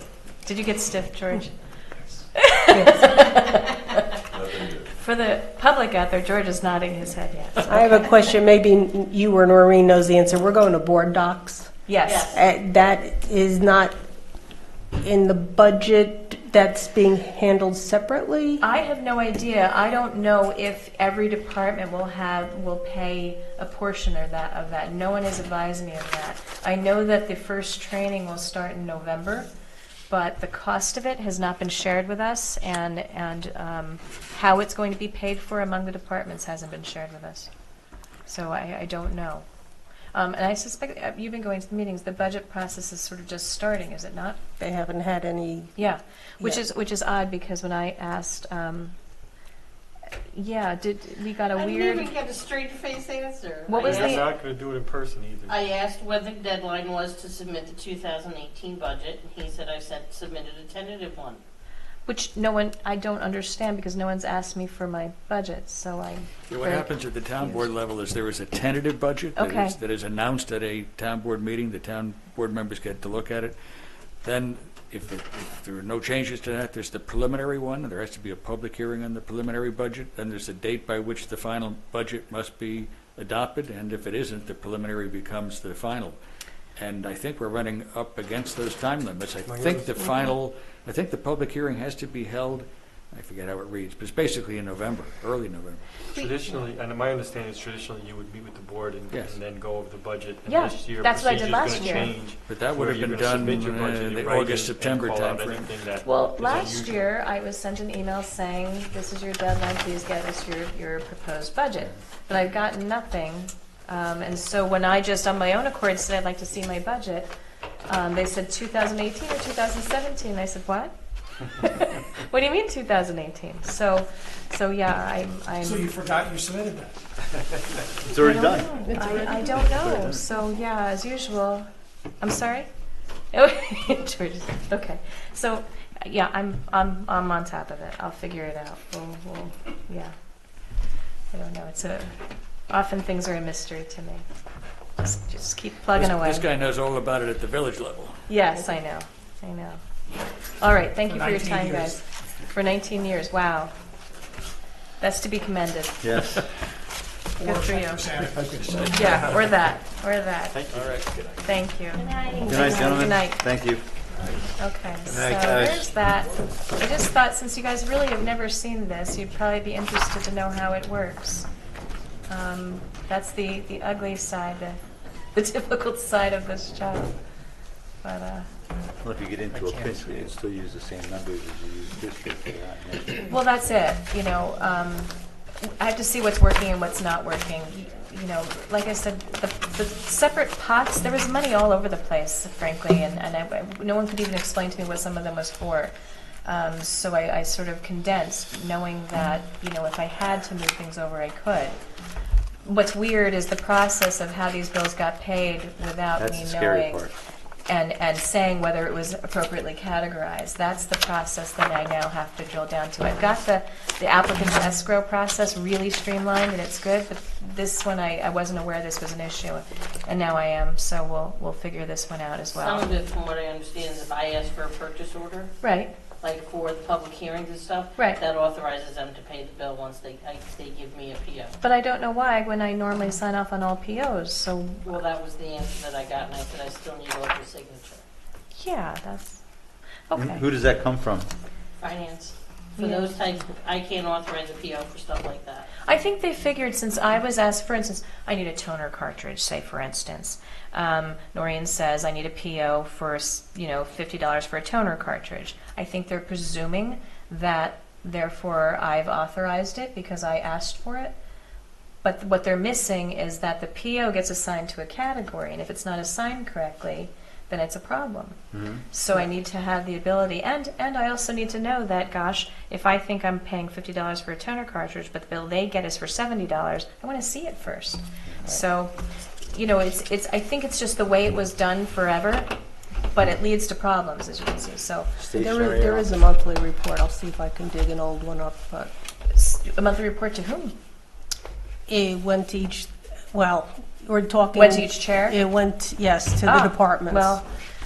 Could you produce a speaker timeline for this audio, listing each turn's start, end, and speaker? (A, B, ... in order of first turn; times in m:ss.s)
0:00.4-0:01.5 A
0:02.4-0:04.0 A
0:02.7-0:03.2 B
0:04.6-0:08.2 A
0:07.7-0:11.7 B
0:11.9-0:12.3 A
0:12.0-0:12.4 C
0:12.3-0:14.0 B
0:15.0-0:18.6 B
0:18.6-0:29.5 A
0:30.1-0:37.5 A
0:38.3-0:39.4 A
0:40.1-0:44.4 A
0:44.6-0:45.8 B
0:45.8-0:48.9 A
0:50.3-0:52.1 A
0:51.5-0:54.3 C
0:53.7-0:54.3 A
0:53.8-0:55.6 D
0:55.5-1:01.4 C
1:02.0-1:07.7 A
1:06.5-1:13.6 E
1:09.4-1:09.8 A
1:14.2-1:26.2 E
1:26.8-1:35.8 E
1:29.4-1:30.1 D
1:36.1-1:36.7 C
1:36.1-1:47.1 D
1:39.1-1:39.4 E
1:40.4-1:42.2 A
1:42.3-1:45.8 E
1:46.0-1:57.3 A
1:57.9-2:00.9 A
2:01.4-2:06.0 A
2:05.6-2:07.0 F
2:08.0-2:09.0 G
2:08.2-2:11.7 A
2:08.8-2:09.6 B
2:09.6-2:10.2 G
2:12.2-2:12.7 A
2:13.3-2:20.1 A
2:21.3-2:22.1 A
2:22.7-2:24.2 A
2:25.0-2:26.5 A
2:25.9-2:28.2 E
2:28.3-2:29.8 A
2:30.6-2:33.7 A
2:31.1-2:31.9 F
2:35.0-2:36.0 A
2:36.0-2:36.5 G
2:37.4-2:39.4 F
2:37.4-2:40.6 A
2:40.5-2:41.1 D
2:40.7-2:41.5 E
2:41.4-2:43.4 A
2:42.0-2:43.0 C
2:42.4-2:43.8 G
2:44.6-2:51.5 A
2:45.1-2:45.9 G
2:52.3-2:54.8 A
2:55.3-2:57.1 A
2:58.0-2:58.5 A
2:59.0-3:03.3 G
3:03.3-3:15.9 A
3:16.4-3:21.8 A
3:22.6-3:27.1 A
3:26.2-3:27.1 G
3:27.7-3:42.9 A
3:42.5-3:45.5 C
3:45.6-3:45.9 A
3:46.2-3:51.5 C
3:51.6-3:55.0 A
3:54.8-3:58.0 C
3:58.5-3:59.4 A
4:00.1-4:00.4 A
4:00.1-4:01.3 G
4:01.8-4:05.7 C
4:02.8-4:03.1 A
4:05.8-4:21.1 A
4:22.0-4:28.4 A
4:28.5-4:28.8 G
4:28.9-4:38.9 A
4:39.5-4:42.5 A
4:43.1-4:45.1 A
4:45.2-4:46.1 G
4:45.3-4:48.9 B
4:49.3-4:50.7 A
4:51.9-4:57.4 B
4:54.5-4:55.4 A
4:56.4-4:57.4 A